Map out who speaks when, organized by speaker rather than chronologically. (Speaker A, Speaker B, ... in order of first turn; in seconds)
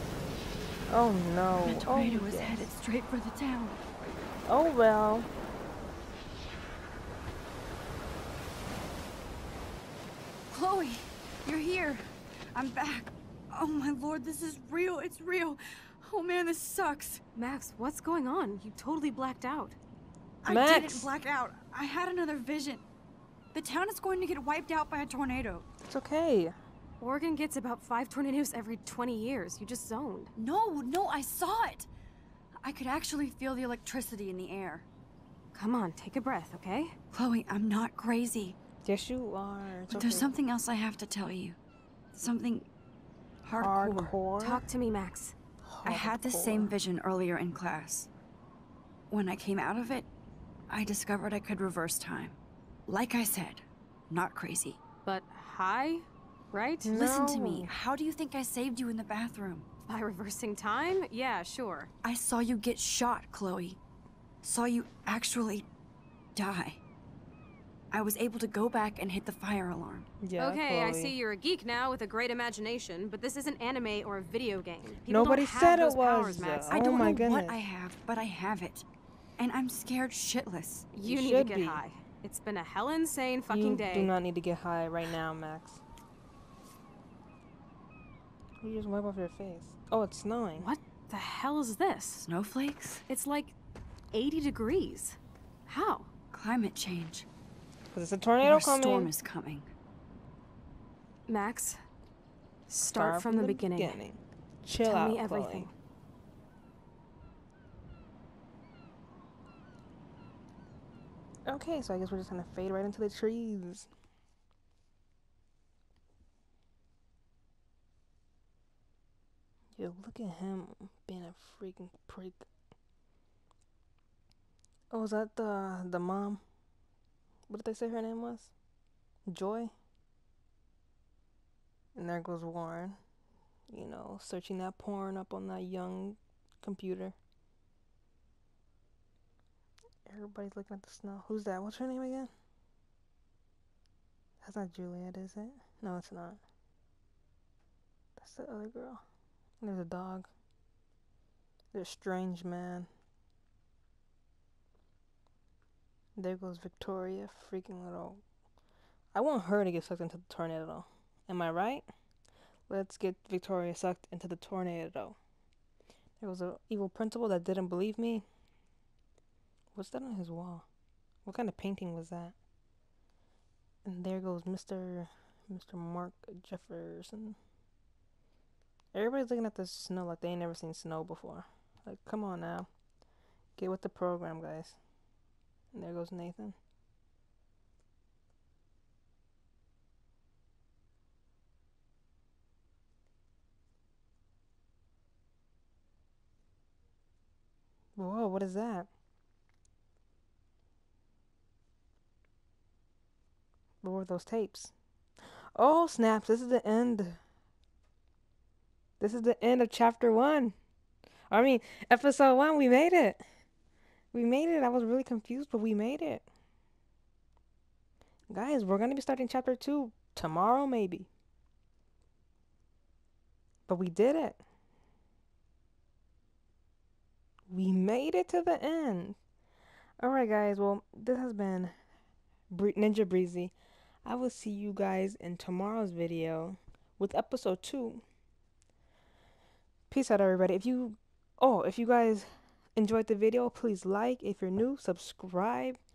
Speaker A: 0.9-2.7, 4.5-5.3, 20.5-21.1, 25.9-26.6, 38.9-40.3, 43.5-44.6, 45.6-46.8, 56.8-57.7, 70.2-71.1, 75.1-77.6, 81.0-81.8, 83.5-85.8, 88.6-90.7, 97.9-99.1, 102.9-105.7, 111.5-113.9, 119.8-122.5, 124.9-126.4, 127.5-128.5, 129.3-129.7, 131.9-133.0, 133.7-137.2, 140.1-142.3, 144.4-146.4, 148.2-149.0, 149.6-150.3, 151.7-152.9, 156.2-158.2, 159.1-161.9, 162.7-165.2, 166.2-168.2, 169.8-170.7, 171.2-172.4, 173.8-177.4, 178.9-182.7, 183.6-184.8, 185.7-186.6, 198.0-198.9, 203.8-204.7, 205.5-207.2, 209.0-210.6, 211.3-213.2, 214.1-216.3, 218.3-221.1, 223.7-224.4, 227.5-229.2, 230.0-231.7, 232.5-233.5, 234.0-238.0, 239.9-245.8
Speaker B: 1.6-3.8, 10.5-17.2, 20.4-22.9, 23.5-25.7, 30.4-31.9, 32.6-34.9, 37.1-38.6, 39.9-41.6, 42.1-42.7, 43.4-44.2, 45.9-48.1, 49.1-50.1, 50.7-54.8, 56.9-59.7, 62.0-63.8, 64.4-65.7, 66.3-66.8, 67.9-70.1, 76.7-78.9, 79.4-80.9, 92.2-93.0, 96.3-97.3, 98.4-99.7
Speaker C: 17.4-19.8, 27.0-30.3, 35.5-37.0, 44.4-45.4, 55.0-56.9, 59.9-61.9, 70.4-76.8, 80.9-84.1, 90.6-92.2, 93.1-93.5, 94.1-96.1, 101.3-101.8, 102.7-104.0, 104.8-105.7